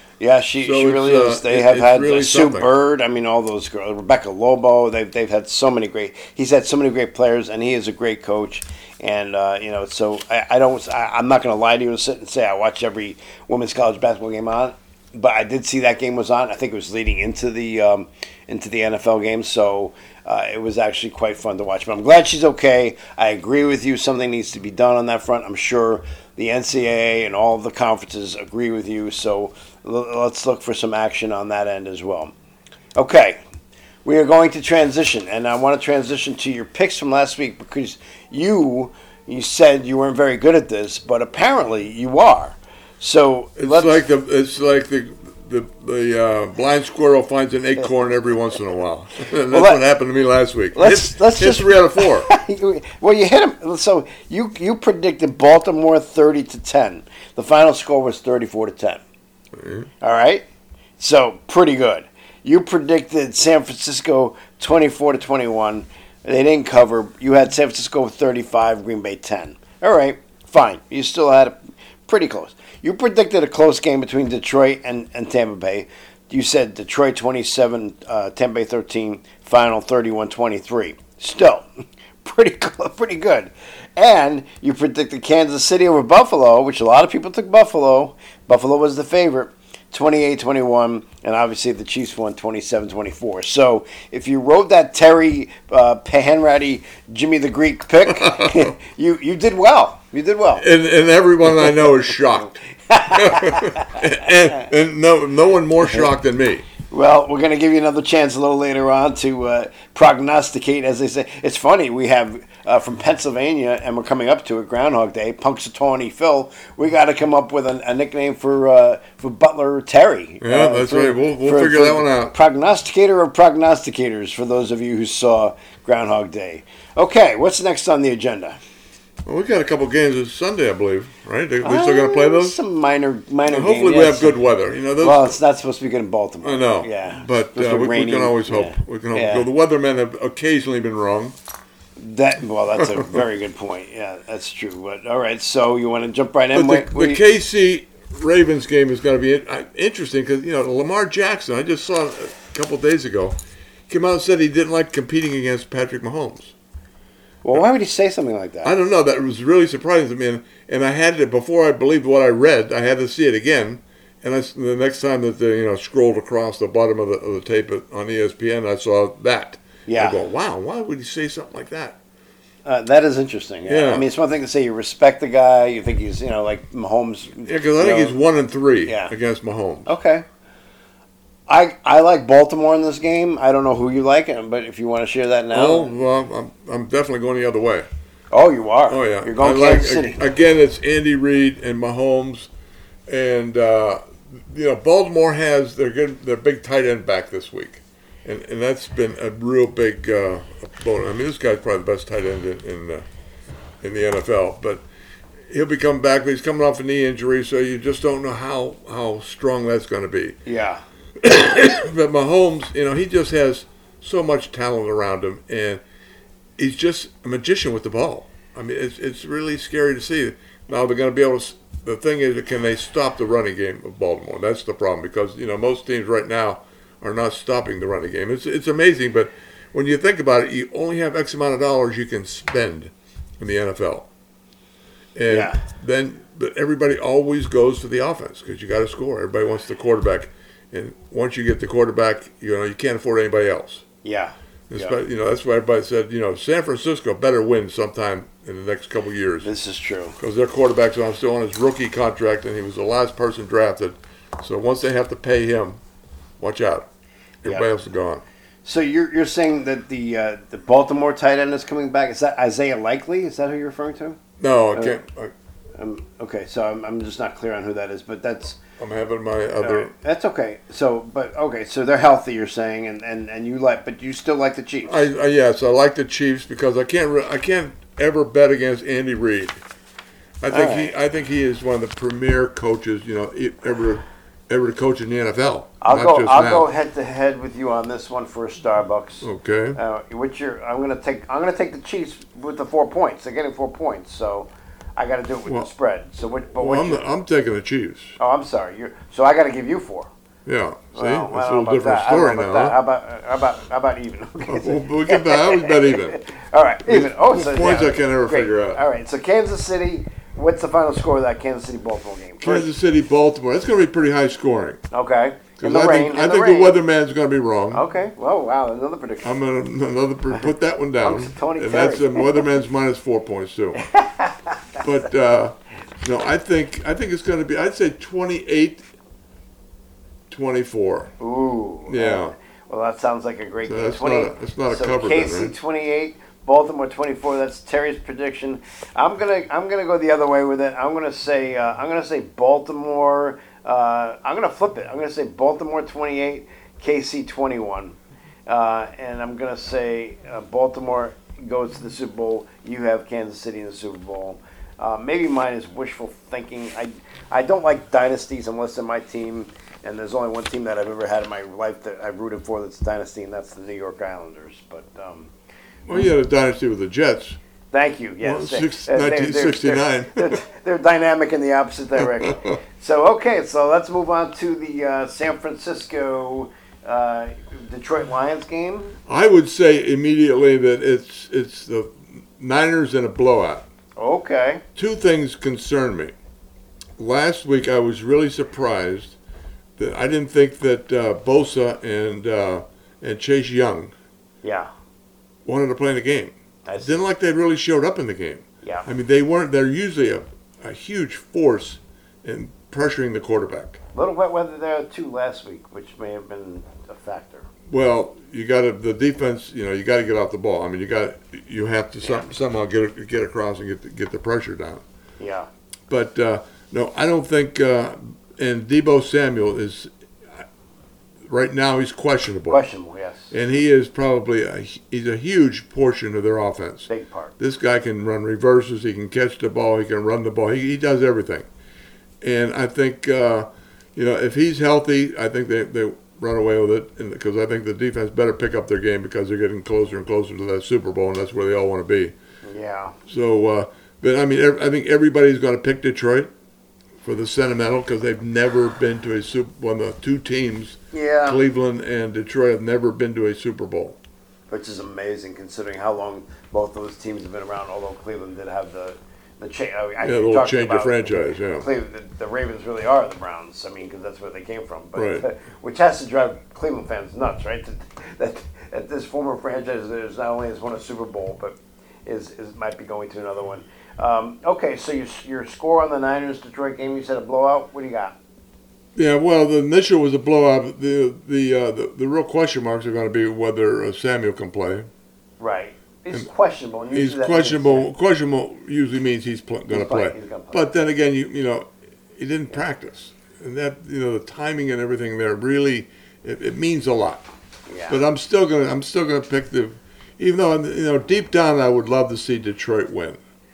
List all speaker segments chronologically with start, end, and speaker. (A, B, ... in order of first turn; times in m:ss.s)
0:00.2-0:32.3 A
0:00.6-0:02.7 B
0:33.0-0:33.4 A
0:34.0-0:44.0 A
0:43.6-0:52.3 B
0:49.5-0:49.8 A
0:50.7-0:59.0 A
0:59.6-0:59.9 B
1:00.0-1:00.4 A
1:01.0-1:21.6 A
1:22.2-1:40.6 A
1:38.2-1:38.6 B
1:40.6-1:46.6 B
1:42.9-1:44.0 A
1:46.9-2:08.6 A
2:00.4-2:02.3 B
2:09.2-2:12.6 B
2:11.6-2:14.4 A
2:13.5-2:15.4 B
2:15.0-2:19.5 A
2:16.4-2:21.4 B
2:22.0-2:27.2 A
2:22.8-2:23.1 B
2:26.5-2:36.5 B
2:37.4-2:38.7 A
2:38.6-2:52.0 B
2:49.9-2:50.2 A
2:52.6-2:58.2 A
2:53.6-2:54.0 B
2:57.4-2:59.9 B
2:58.8-2:59.1 A
2:59.8-3:00.2 A
3:01.5-3:05.9 A
3:05.5-3:07.9 B
3:08.3-3:10.2 A
3:08.9-3:12.5 B
3:13.1-3:23.0 B
3:23.8-3:24.8 B
3:25.5-3:30.4 B
3:30.4-3:30.8 A
3:31.2-3:35.8 B
3:36.6-3:54.1 B
3:55.2-4:03.8 B
3:55.3-3:55.6 A
4:04.0-4:05.0 A
4:04.7-4:09.5 B
4:09.4-4:10.2 A
4:10.2-4:15.8 B
4:16.4-4:16.9 B
4:17.4-4:18.2 B
4:18.6-4:24.2 A
4:24.4-4:25.3 B
4:25.8-4:28.6 A
4:28.8-4:29.9 B
4:29.6-4:35.0 A
4:34.9-4:39.6 B
4:40.4-4:46.7 B
4:40.5-4:40.9 A
4:45.8-4:57.0 A
4:49.2-4:49.8 B
4:56.6-4:58.2 B
4:58.2-5:00.1 A
5:00.4-5:02.8 B
5:00.9-5:12.7 A
5:04.5-5:06.2 B
5:06.8-5:08.8 B
5:12.4-5:14.8 B
5:14.9-5:16.8 A
5:15.6-5:17.8 B
5:17.7-5:19.3 A
5:19.2-5:23.9 B
5:21.0-5:22.4 A
5:23.8-5:24.5 A
5:24.8-5:28.8 B
5:30.3-5:31.1 B
5:31.2-6:05.3 A
5:31.9-5:32.3 B
5:33.6-5:35.5 B
6:05.8-6:07.4 B
6:07.7-6:19.0 A
6:08.2-6:10.4 B
6:12.2-6:12.6 B
6:19.1-6:23.6 B
6:24.0-6:24.6 A
6:24.8-6:26.1 B
6:27.0-6:29.2 B
6:29.8-6:33.9 B
6:34.4-6:34.7 A
6:35.4-6:43.8 B
6:36.6-6:37.0 A
6:38.6-6:38.9 A
6:43.9-6:47.5 A
6:47.7-6:54.8 B
6:55.2-6:55.5 A
6:55.9-7:00.4 B
7:01.3-7:02.6 B
7:02.5-7:03.3 A
7:03.3-7:11.4 B
7:06.9-7:07.3 A
7:12.2-7:22.1 B
7:22.4-7:23.0 A
7:23.0-7:26.3 B
7:27.0-7:34.0 B
7:30.9-7:31.4 A
7:34.5-7:58.2 A
7:40.0-7:41.7 B
7:44.9-7:45.2 B
7:58.9-8:04.9 B
8:05.4-8:07.9 A
8:06.9-8:17.2 B
8:09.7-8:10.7 A
8:17.7-8:18.0 A
8:17.9-8:23.2 B